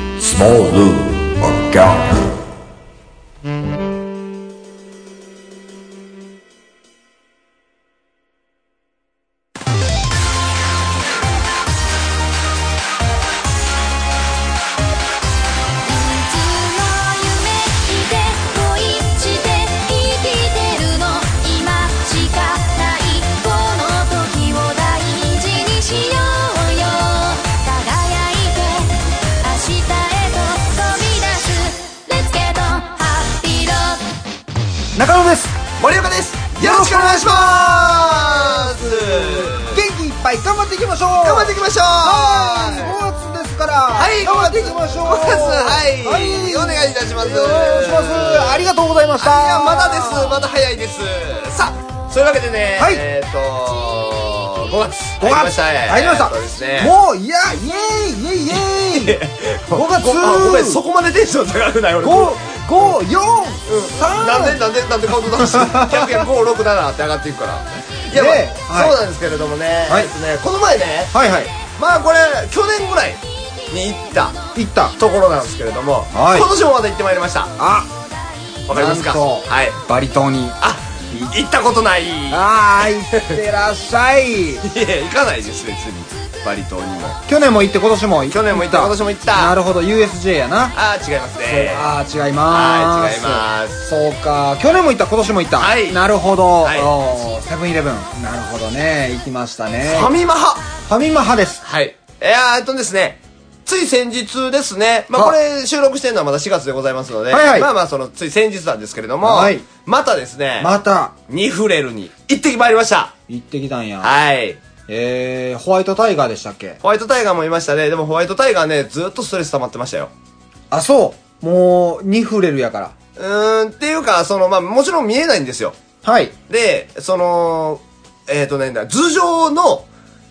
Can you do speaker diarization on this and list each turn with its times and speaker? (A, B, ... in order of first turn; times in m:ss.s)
0:00.2-0:02.2 A
0:15.8-0:34.0 B
0:34.9-0:35.6 C
0:35.8-0:39.8 D
0:36.6-0:50.4 C
0:41.2-0:43.0 D
0:43.9-0:56.9 D
0:52.8-0:53.0 C
0:55.2-1:00.8 C
0:58.5-1:02.9 D
1:02.0-1:04.6 C
1:03.7-1:11.1 D
1:05.4-1:06.2 C
1:08.1-1:09.0 C
1:09.9-1:10.1 C
1:11.1-1:11.5 C
1:11.8-1:14.4 D
1:14.5-1:15.0 C
1:15.0-1:17.5 D
1:16.1-1:16.5 C
1:17.6-1:17.9 C
1:18.7-1:19.8 D
1:18.7-1:20.6 C
1:20.6-1:22.4 D
1:22.3-1:24.6 C
1:23.1-1:23.4 D
1:24.6-1:27.2 D
1:27.3-1:30.7 C
1:28.3-1:29.6 D
1:30.7-1:31.9 D
1:31.4-1:40.1 C
1:32.5-1:33.8 D
1:35.6-1:36.0 D
1:36.6-1:36.9 D
1:39.8-1:40.6 D
1:40.9-1:41.6 C
1:41.6-1:50.7 D
1:47.3-1:47.7 C
1:49.2-1:49.6 C
1:50.6-1:51.1 C
1:51.3-1:53.1 D
1:53.3-1:54.1 C
1:54.0-1:54.6 D
1:54.9-1:56.8 C
1:56.8-2:00.1 D
2:00.7-2:02.9 C
2:03.2-2:05.8 D
2:06.0-2:06.3 C
2:06.5-2:09.9 D